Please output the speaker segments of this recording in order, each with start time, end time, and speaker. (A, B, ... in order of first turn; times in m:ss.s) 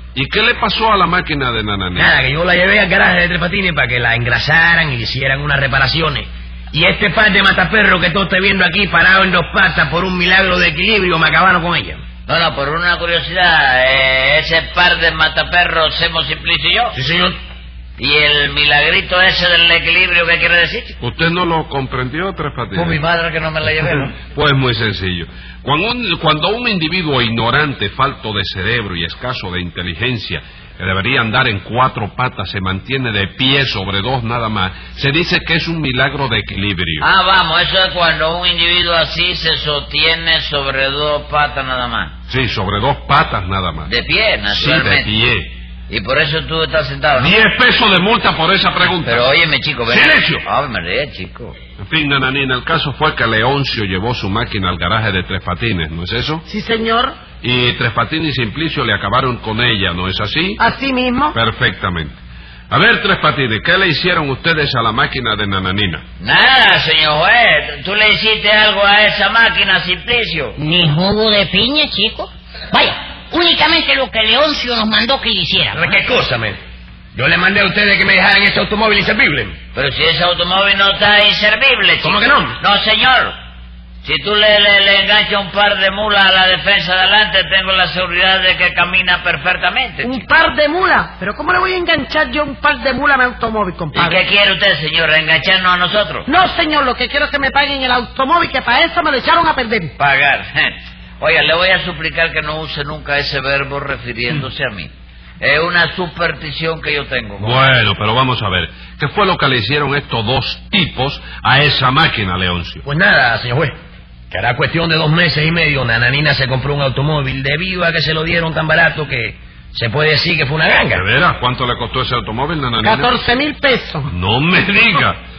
0:00.1-0:02.1 A
0:02.0-0:12.0 B
0:12.3-0:16.9 C
0:16.9-0:17.4 B
0:18.0-0:21.0 C
0:21.0-0:23.0 A
0:22.7-0:24.2 C
0:24.3-0:37.1 A
0:37.0-0:42.1 C
0:42.3-0:43.9 A
0:43.9-0:45.1 C
0:44.5-0:45.5 A
0:45.9-0:47.4 C
0:47.2-0:49.3 A
0:49.0-0:51.6 C
0:49.9-0:50.4 A
0:51.8-0:56.4 A
0:56.5-0:57.2 D
0:57.4-1:00.6 A
1:00.6-1:01.4 D
1:01.3-1:02.2 A
1:02.7-1:06.0 A
1:06.2-1:10.6 C
1:10.6-1:15.9 E
1:15.7-1:16.6 B
1:17.2-1:19.6 B
1:19.8-1:23.4 C
1:22.0-1:22.6 B
1:24.0-1:30.3 C
1:30.0-1:34.2 D
1:33.9-1:36.3 C
1:36.3-1:39.9 D
1:40.0-1:47.6 C
1:47.4-1:52.8 A
1:52.8-1:53.8 B
1:54.3-2:01.0 B
2:00.9-2:03.2 A
2:02.8-2:04.1 D
2:04.1-2:05.2 A